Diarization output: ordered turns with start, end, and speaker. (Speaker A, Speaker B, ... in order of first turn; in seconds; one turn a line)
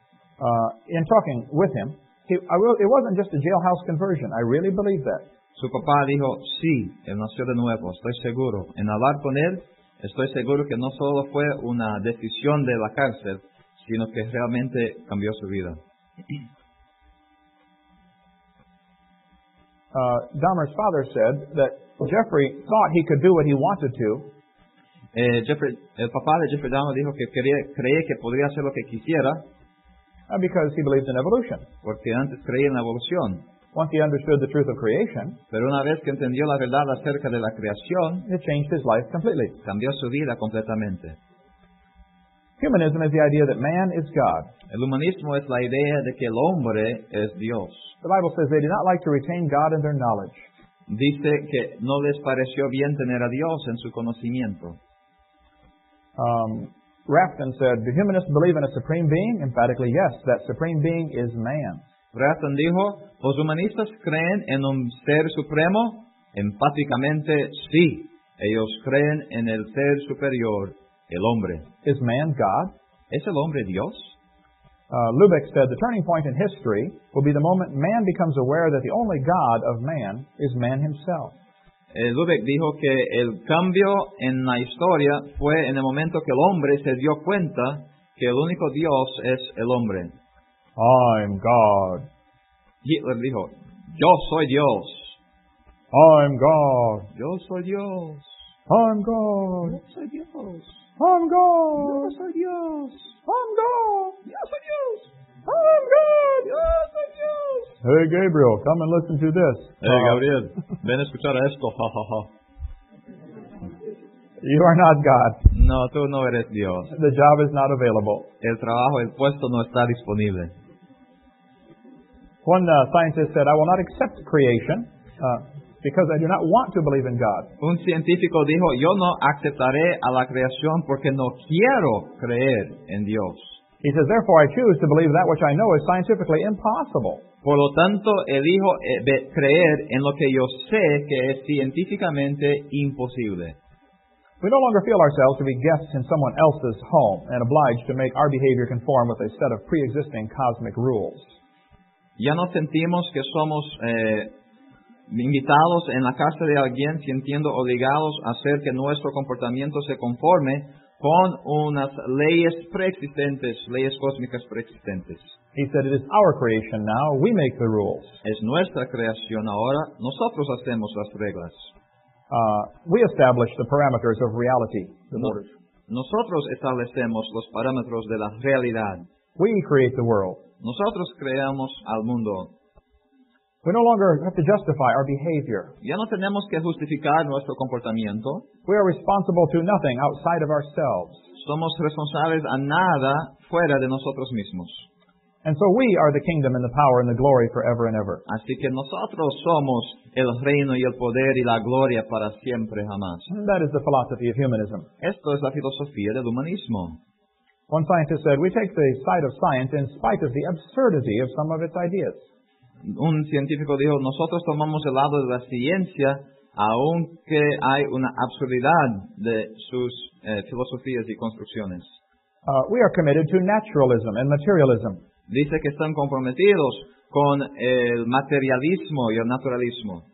Speaker A: 0.4-5.2
Speaker B: 5.6-15.8
Speaker A: 19.9-24.3
Speaker B: 25.1-29.4
Speaker A: 30.3-31.7
Speaker B: 31.8-33.4
Speaker A: 33.7-35.4
Speaker B: 35.5-38.3
Speaker A: 38.3-39.6
Speaker B: 39.6-41.2
Speaker A: 42.6-44.5
Speaker B: 44.7-47.9
Speaker A: 48.0-50.5
Speaker B: 50.9-54.8
Speaker A: 56.2-61.8
Speaker B: 62.1-71.7
Speaker A: 71.8-72.7
Speaker B: 73.1-74.1
Speaker A: 74.9-81.3
Speaker B: 81.9-90.1
Speaker A: 90.8-92.1
Speaker B: 92.8-95.2
Speaker A: 95.9-97.1
Speaker B: 97.1-98.4
Speaker A: 98.7-99.8
Speaker B: 99.7-100.9
Speaker A: 101.0-102.1
Speaker B: 101.8-103.2
Speaker A: 103.3-104.2
Speaker B: 104.3-107.8
Speaker A: 107.8-110.2
Speaker B: 109.8-112.3
Speaker A: 114.4-115.4
Speaker B: 115.5-116.9
Speaker A: 116.9-118.3
Speaker B: 118.4-120.5
Speaker A: 122.5-127.5
Speaker B: 127.6-133.6
Speaker A: 133.8-137.2
Speaker B: 137.4-143.6
Speaker A: 144.4-151.2
Speaker B: 152.2-154.3
Speaker B: 155.1-165.3
Speaker A: 165.6-168.1
Speaker B: 168.2-171.7
Speaker A: 172.3-175.5
Speaker B: 175.9-179.1
Speaker A: 179.4-180.4
Speaker B: 180.6-182.5
Speaker A: 183.6-185.7
Speaker B: 185.8-188.5
Speaker A: 188.7-191.2
Speaker B: 191.4-194.8
Speaker A: 195.4-198.2
Speaker B: 198.3-203.3
Speaker A: 203.3-204.9
Speaker B: 205.0-207.0
Speaker A: 207.7-212.2
Speaker B: 212.8-221.9
Speaker A: 222.5-225.0
Speaker B: 225.3-230.0